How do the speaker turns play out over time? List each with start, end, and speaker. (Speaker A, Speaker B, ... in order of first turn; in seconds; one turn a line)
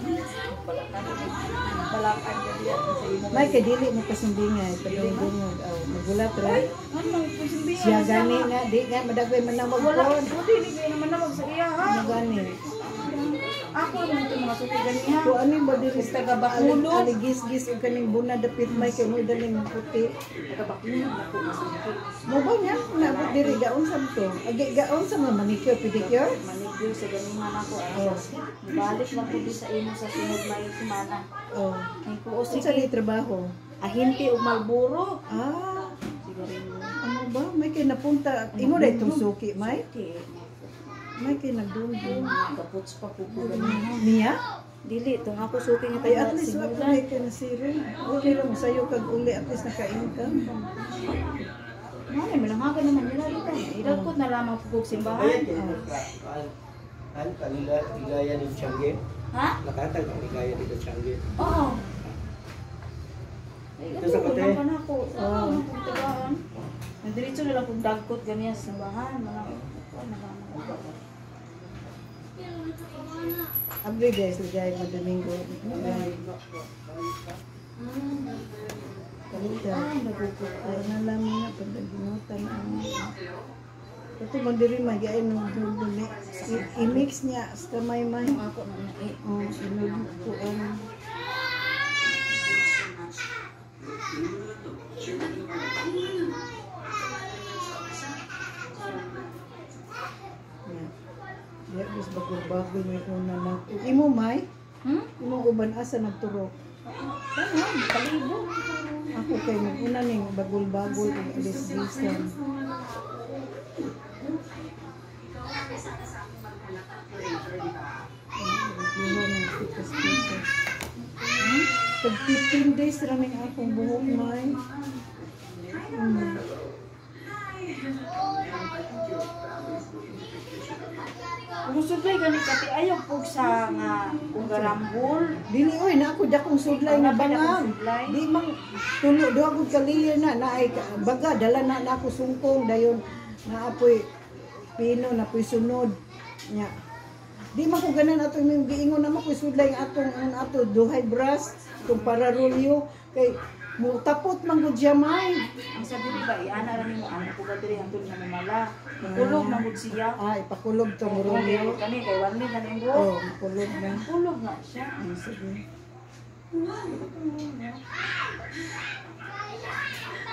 Speaker A: 0.3-3.6
Speaker B: 3.3-6.6
Speaker A: 4.8-5.3
Speaker A: 6.4-8.5
Speaker B: 7.8-10.3
Speaker A: 9.8-12.2
Speaker B: 11.8-12.6
Speaker A: 12.8-15.3
Speaker B: 15.2-20.1
Speaker A: 15.9-17.1
Speaker A: 18.7-18.9
Speaker A: 20.5-22.1
Speaker B: 22.3-26.3
Speaker A: 22.9-23.6
Speaker A: 26.0-31.2
Speaker B: 27.9-28.3
Speaker B: 31.5-31.9
Speaker A: 32.0-32.9
Speaker B: 32.5-33.5
Speaker A: 33.8-35.2
Speaker B: 35.3-35.9
Speaker A: 36.2-36.9
Speaker B: 37.0-39.8
Speaker A: 38.5-40.9
Speaker B: 41.2-42.3
Speaker A: 42.0-44.1
Speaker B: 43.3-44.4
Speaker A: 44.9-47.0
Speaker B: 46.0-50.5
Speaker A: 50.5-51.2
Speaker A: 52.1-55.5
Speaker B: 53.8-54.1
Speaker C: 55.0-56.5
Speaker B: 55.5-55.9
Speaker C: 57.1-59.0
Speaker A: 59.3-59.6
Speaker C: 59.6-61.2
Speaker A: 61.4-61.8
Speaker A: 63.8-66.4
Speaker C: 64.0-64.6
Speaker B: 65.2-65.6
Speaker A: 67.0-71.0
Speaker B: 73.8-76.2
Speaker A: 75.7-76.2
Speaker A: 77.8-78.7
Speaker B: 79.3-79.9
Speaker A: 79.3-80.9
Speaker B: 80.4-83.1
Speaker B: 84.2-88.4
Speaker A: 86.3-87.0
Speaker A: 88.2-90.4
Speaker B: 89.2-90.8
Speaker B: 101.7-104.5
Speaker A: 104.8-105.1
Speaker B: 105.2-106.5
Speaker A: 106.9-108.4
Speaker B: 109.1-112.3
Speaker B: 118.4-120.4
Speaker A: 121.4-121.7
Speaker B: 122.0-124.6
Speaker A: 125.3-125.8
Speaker B: 125.9-126.4
Speaker A: 131.6-135.4
Speaker B: 134.4-134.8
Speaker B: 135.5-144.1
Speaker A: 136.7-138.2
Speaker B: 144.7-145.9
Speaker B: 147.5-155.5
Speaker A: 151.8-152.2
Speaker A: 155.7-160.2
Speaker B: 159.0-161.8
Speaker A: 161.0-163.1
Speaker B: 162.9-164.0
Speaker A: 163.8-164.9
Speaker B: 165.0-165.6
Speaker A: 166.7-167.8